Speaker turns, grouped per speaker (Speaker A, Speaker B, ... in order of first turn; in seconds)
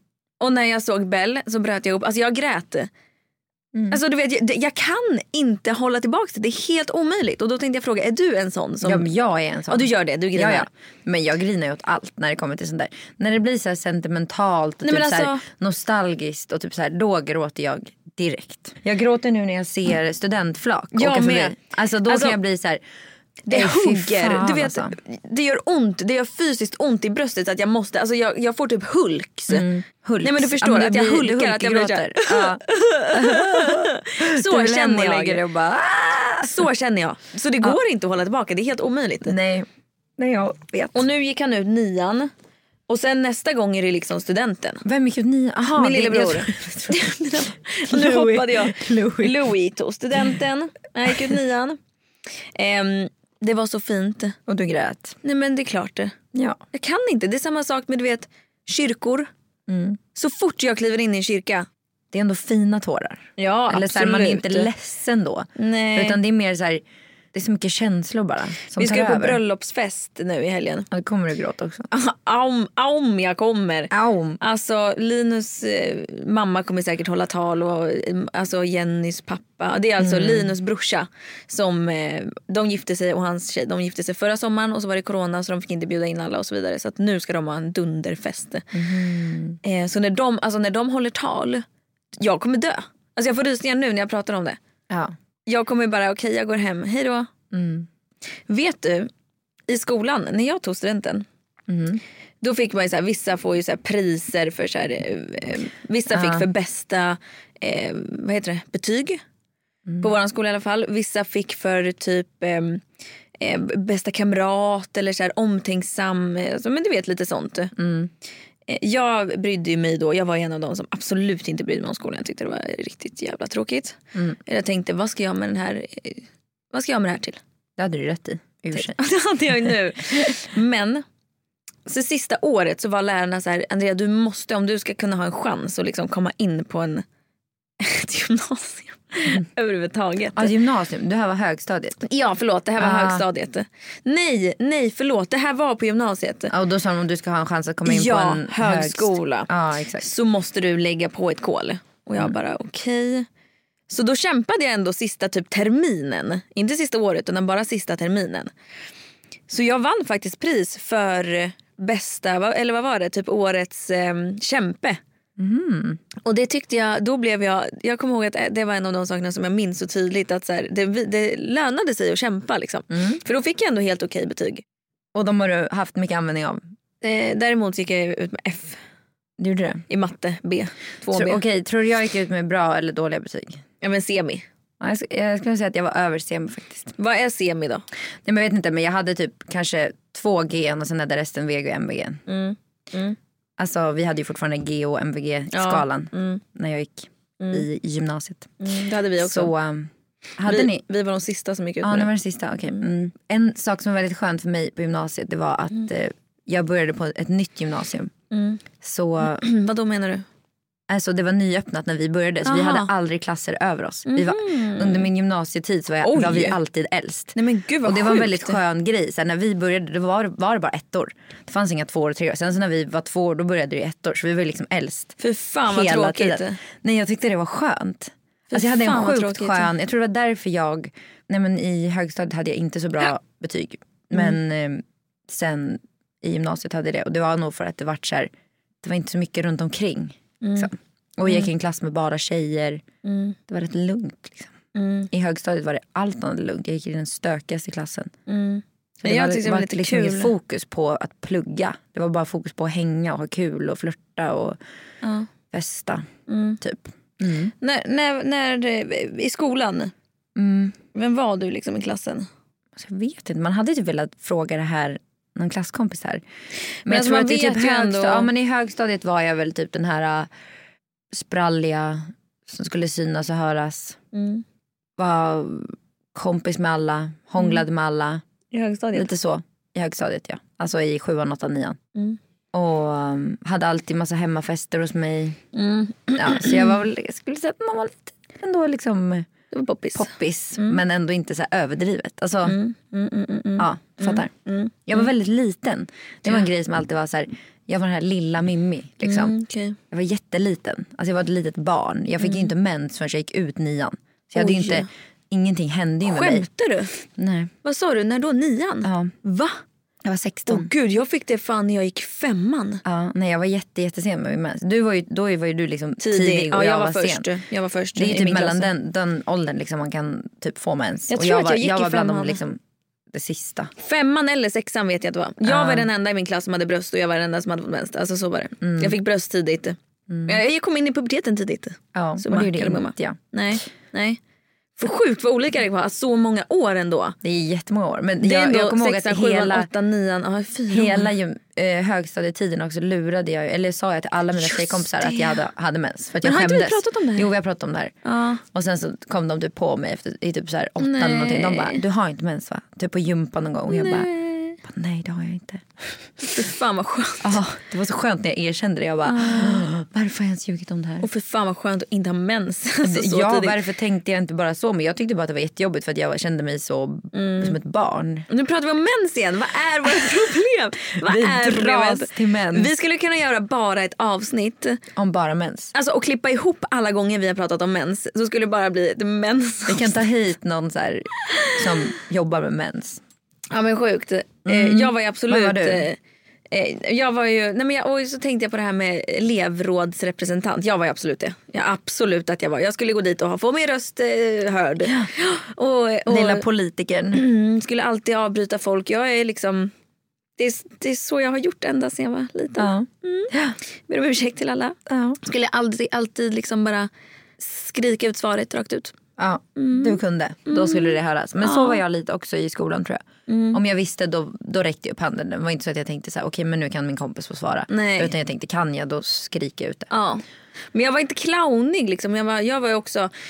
Speaker A: 0.4-2.9, 3.9-9.1, 9.7-10.7, 14.8-15.4, 20.9-22.4, 23.5-29.7, 30.2-35.4, 36.4-39.4, 40.9-42.3, 42.9-44.8, 45.8-51.8, 52.5-54.4, 55.2-56.2, 56.7-59.3, 60.1-61.7, 63.4-64.7, 65.6-66.2, 68.8-70.9, 71.9-88.7, 89.6-91.6, 92.2-94.6, 95.5-97.3, 98.5-99.1, 99.7-101.3, 102.4-109.2, 110.0-112.8, 113.4-117.8, 118.7-127.4, 128.7-131.0, 131.9-137.0, 137.8-140.5, 142.0-146.5, 147.8-149.5, 150.0-153.3, 153.9-158.5, 159.5-165.0, 166.2-174.6, 177.0-178.8, 179.9-181.4, 183.8-184.4, 187.0-187.8, 192.3-193.2, 195.5-196.4, 197.4-197.7, 198.6-199.5, 200.5-202.1, 208.3-208.6, 209.2-210.2, 212.4-212.9, 214.1-215.1, 216.0-216.6, 217.3-218.6, 225.2-226.6, 228.5-229.7, 240.4-240.7, 243.0-243.4, 244.7-245.1, 248.3-250.3, 255.0-255.3, 256.3-256.6, 257.6-259.9, 260.9-262.3, 266.9-268.3, 274.1-274.4, 278.5-279.1, 285.5-286.8, 289.5-290.8, 292.4-295.1, 299.0-299.8, 302.2-302.5, 304.4-304.9, 306.1-306.9, 307.6-309.6, 310.5-312.8, 316.0-318.7, 321.1-322.4, 323.8-334.2, 334.8-337.2, 338.2-341.1, 344.5-345.4, 346.2-347.3, 348.0-348.4, 350.8-351.8, 353.7-354.6, 356.3-357.4, 359.1-359.6, 361.0-363.6, 367.1-367.6, 368.3-374.8, 375.7-380.0, 383.5-386.0, 386.5-396.4, 397.1-399.7, 400.4-403.3, 403.9-408.9, 409.6-411.8, 413.3-413.6, 417.7-418.1, 419.9-423.1
Speaker B: 3.7-4.0, 8.8-22.8, 23.5-25.0, 29.5-36.6, 39.3-41.0, 44.8-47.2, 47.9-49.4, 54.5-55.2, 56.3-56.6, 59.7-60.0, 62.1-69.4, 70.9-71.9, 73.9-74.4, 80.0-80.5, 88.7-89.6, 97.5-97.9, 101.7-102.0, 106.1-106.5, 117.8-118.1, 127.8-129.0, 140.3-142.1, 142.8-143.2, 146.5-150.1, 165.4-166.0, 172.9-173.2, 175.1-176.6, 179.4-179.8, 181.1-183.6, 184.8-186.9, 188.2-192.2, 193.6-198.6, 199.2-200.8, 201.8-208.1, 208.8-209.4, 210.9-225.2, 225.7-238.3, 238.8-242.8, 243.5-244.5, 245.1-248.1, 249.0-254.6, 255.5-256.1, 256.6-257.5, 260.4-260.8, 262.8-266.2, 266.9-270.3, 271.1-274.0, 275.0-278.2, 278.9-281.8, 282.5-285.4, 286.1-289.3, 289.9-292.6, 293.6-294.3, 294.9-299.4, 299.9-306.5, 307.2-307.5, 308.8-309.1, 310.0-310.7, 312.9-317.3, 318.0-322.6, 323.1-323.7, 325.4-325.9, 328.6-329.0, 330.1-330.4, 331.9-333.2, 337.2-339.7, 340.7-354.1, 354.6-355.9, 357.2-361.1, 362.8-368.3, 371.0-372.7, 375.0-375.7, 379.7-383.0, 384.4-385.9, 396.1-397.2, 402.6-403.6, 404.9-405.2, 409.2-419.9